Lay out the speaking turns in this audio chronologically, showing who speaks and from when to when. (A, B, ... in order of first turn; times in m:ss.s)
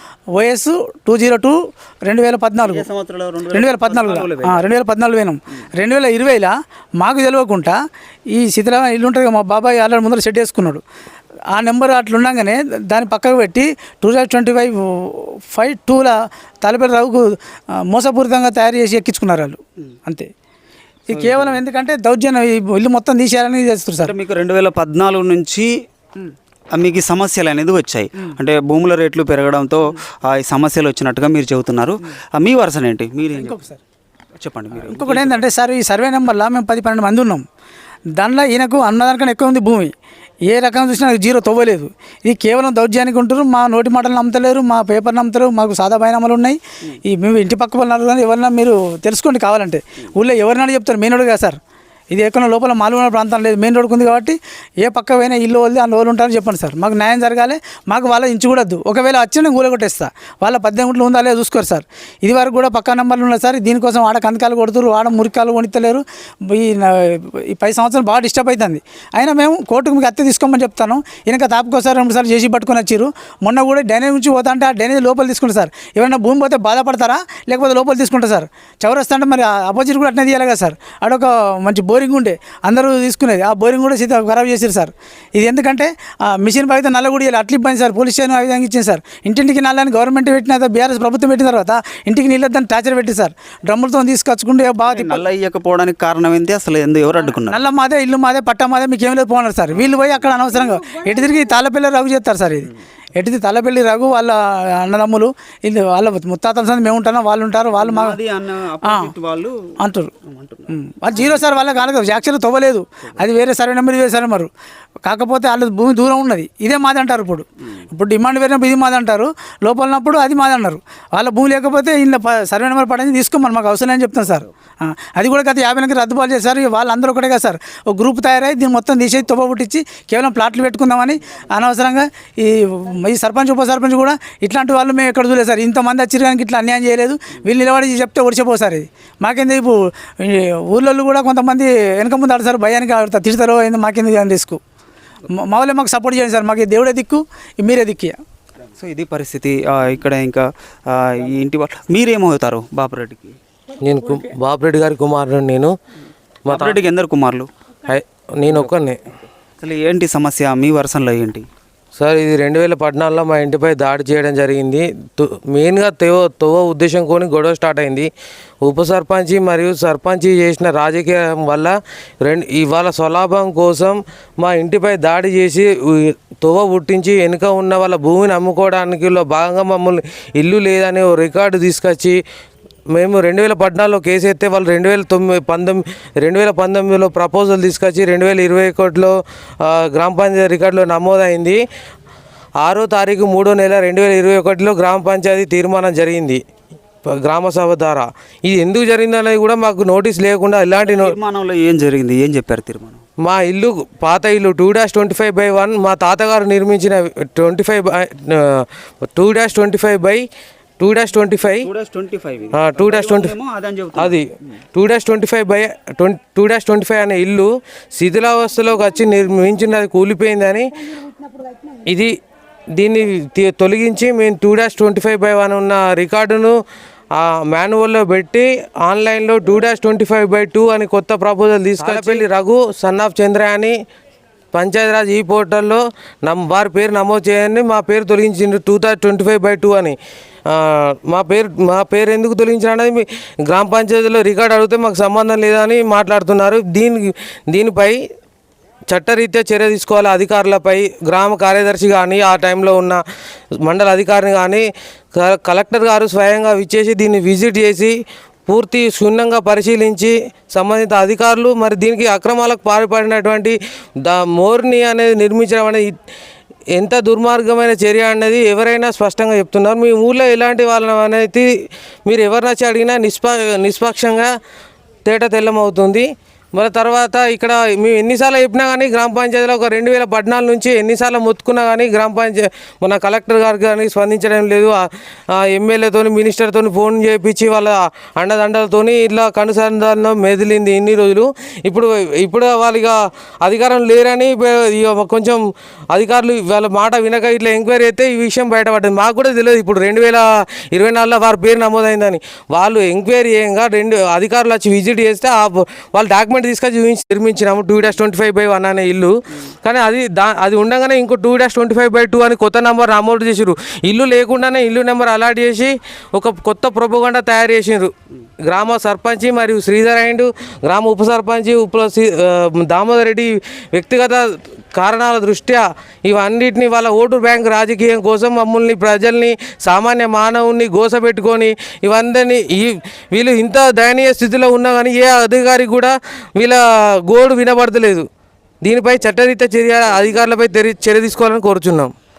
0:00.4-0:02.9 A
0:02.6-0:04.6 B
0:03.5-0:07.8 A
0:08.3-0:10.8 A
0:11.5-0:17.4 A
0:17.9-0:20.3 A
0:21.1-0:24.1 A
0:21.1-0:21.6 B
0:24.0-0:25.8 B
0:26.7-0:33.6 B
0:33.3-0:33.8 A
0:34.4-0:35.5 B
0:34.7-0:37.4 A
0:38.2-0:39.9 A
0:40.5-0:51.6 A
0:52.1-1:35.2 A
1:34.9-1:37.6 B
1:37.4-1:48.2 A
1:39.8-1:40.2 B
1:47.8-1:49.6 B
1:48.9-1:49.1 A
1:49.8-1:50.1 A
1:50.2-1:51.4 B
1:50.7-1:54.5 A
1:55.0-2:24.6 A
2:25.3-2:28.2 A
2:28.8-2:33.4 B
2:33.8-2:35.8 C
2:36.5-2:37.5 B
2:36.5-2:36.8 C
2:37.9-2:39.0 C
2:38.4-2:38.7 B
2:39.6-2:41.5 B
2:42.0-2:48.1 C
2:48.6-3:02.2 C
3:02.9-3:11.6 C
3:12.6-3:16.4 C
3:17.0-3:21.1 C
3:20.8-3:23.0 B
3:23.2-3:30.2 C
3:30.8-3:31.7 C
3:31.5-3:34.6 B
3:32.5-3:33.3 C
3:34.0-3:34.2 C
3:34.7-3:40.7 C
3:41.9-3:42.2 C
3:42.8-3:46.6 C
3:47.1-3:53.7 C
3:51.8-3:52.2 B
3:54.5-4:00.0 C
4:00.5-4:08.0 C
4:08.9-4:13.0 C
4:13.6-4:17.9 C
4:18.5-4:25.9 C
4:26.7-4:31.5 C
4:32.1-4:34.3 C
4:35.1-5:17.9 C
5:18.4-5:38.1 C
5:38.6-5:41.9 C